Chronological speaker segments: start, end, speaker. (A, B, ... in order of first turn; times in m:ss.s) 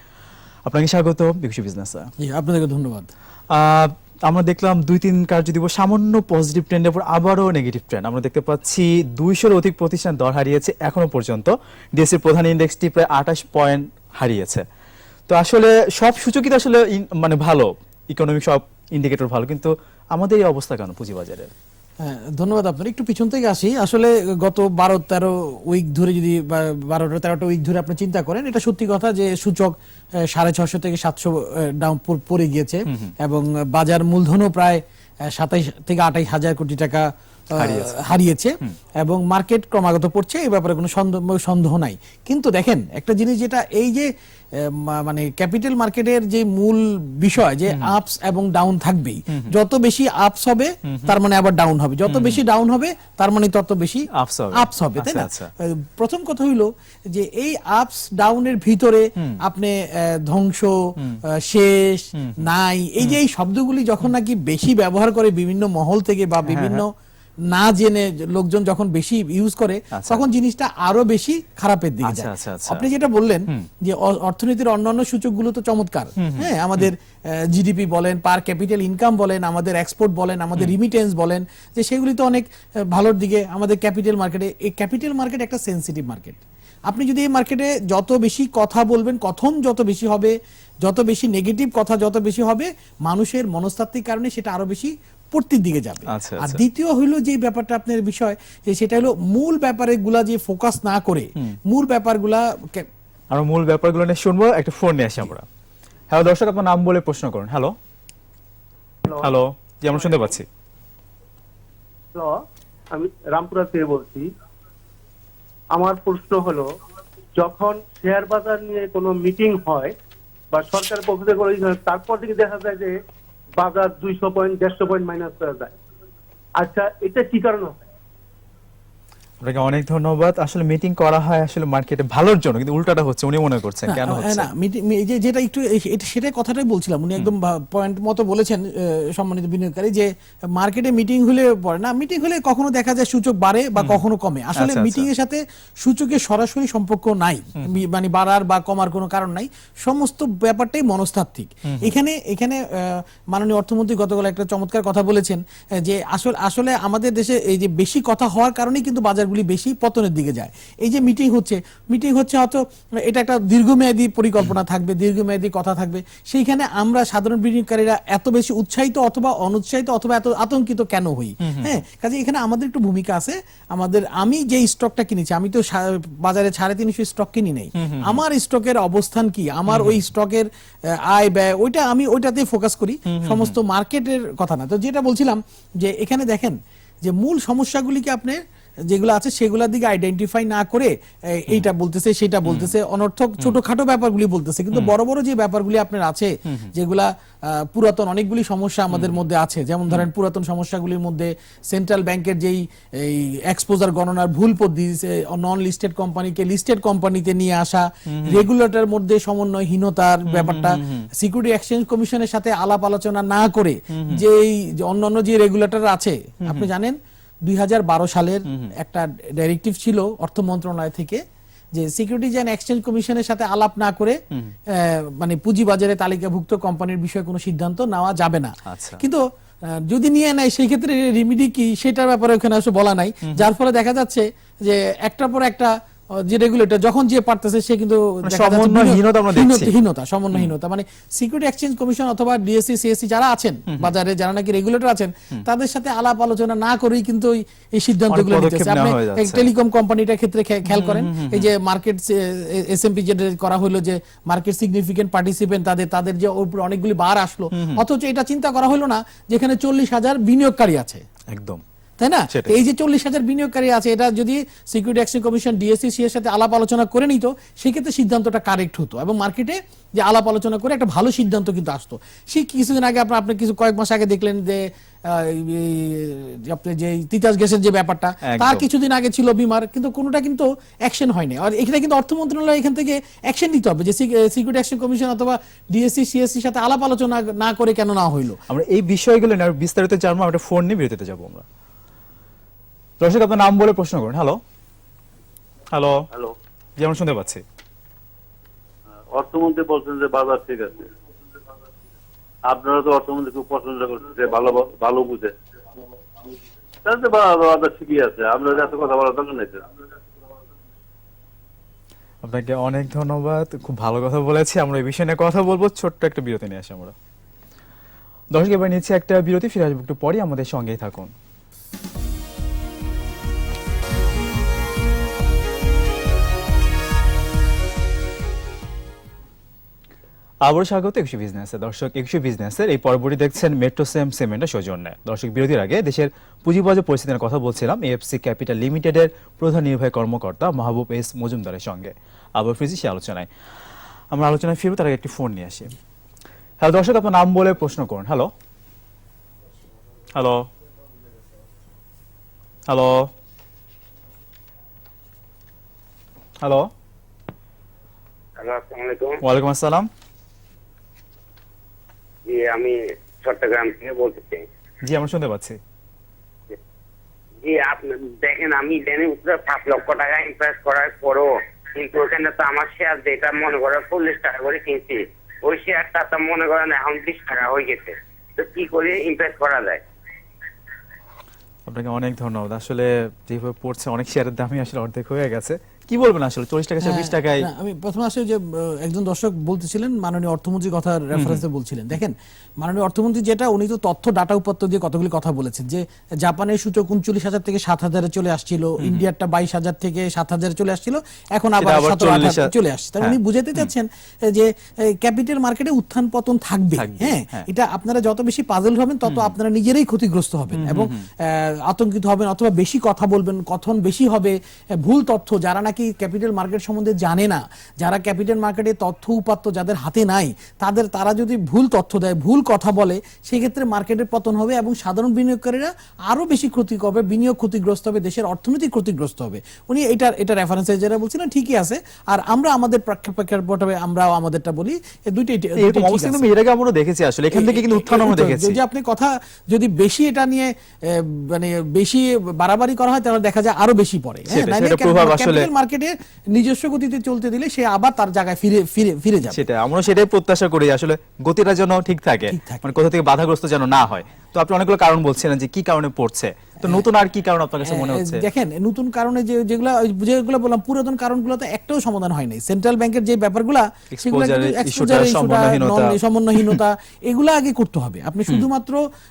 0:00.6-0:02.1 A
0:02.2-0:03.1 B
0:03.5-0:14.6 A
0:15.3-0:21.5 A
0:22.0-0:29.7 B
0:30.3-0:34.8 B
0:35.3-1:00.8 B
0:37.6-0:38.0 A
0:47.7-0:47.9 A
0:50.9-0:51.2 A
0:52.1-0:52.4 A
0:54.1-0:55.5 A
1:01.4-1:06.9 B
1:02.2-1:02.5 A
1:06.4-1:06.8 A
1:07.5-1:42.8 B
1:09.9-1:10.2 A
1:12.0-1:12.8 A
1:16.2-1:16.9 A
1:36.1-1:36.6 A
1:43.3-1:45.4 A
1:46.1-1:47.7 A
1:49.2-1:50.4 A
1:52.1-1:52.4 C
1:52.9-1:54.2 C
1:55.7-1:56.6 C
1:57.4-1:59.9 C
2:00.5-2:02.9 C
2:03.6-2:05.7 C
2:06.6-2:07.8 C
2:09.4-2:14.5 A
2:13.9-3:08.4 B
2:24.6-2:25.1 A
2:31.6-2:31.9 A
2:51.4-2:51.7 A
2:57.8-2:58.2 A
2:59.7-3:00.0 A
3:03.1-3:03.5 A
3:08.9-3:41.2 B
3:12.4-3:12.8 A
3:18.9-3:19.2 A
3:28.1-3:28.4 A
3:30.3-3:31.0 A
3:33.9-3:34.2 A
3:38.5-3:38.7 A
3:41.7-3:44.2 B
3:44.7-3:49.2 B
3:48.7-3:49.0 A
3:49.8-4:21.0 B
3:58.2-3:59.7 A
4:08.1-4:09.5 A
4:10.7-4:11.5 A
4:17.5-4:17.8 A
4:21.3-4:21.6 A
4:22.0-4:48.4 B
4:22.3-4:22.6 A
4:38.2-4:38.6 A
4:48.5-4:51.4 A
4:53.0-4:54.4 A
4:55.7-4:56.0 A
4:56.8-4:57.4 A
4:59.1-5:00.8 D
5:02.5-5:05.3 D
5:06.8-5:09.6 D
5:12.2-5:16.9 A
5:18.3-5:21.1 A
5:30.4-5:43.3 A
5:44.1-5:45.7 A
5:46.6-5:48.3 A
5:50.1-5:50.4 A
5:52.7-5:53.1 A
5:56.4-5:56.7 A
5:58.4-5:59.2 E
5:59.2-5:59.9 A
6:02.2-6:04.4 E
6:04.8-6:05.6 A
6:07.4-6:19.8 E
6:21.7-6:27.5 A
6:26.8-7:16.2 B
6:31.1-6:31.4 A
6:38.8-6:39.1 A
6:41.6-6:43.7 A
6:46.8-6:47.5 A
6:49.0-6:49.3 A
6:50.5-6:51.0 A
7:15.6-7:18.6 A
7:17.3-7:29.4 B
7:24.3-7:25.5 A
7:29.3-7:38.2 A
7:32.3-7:32.7 B
7:37.6-7:48.8 B
7:43.9-7:46.6 A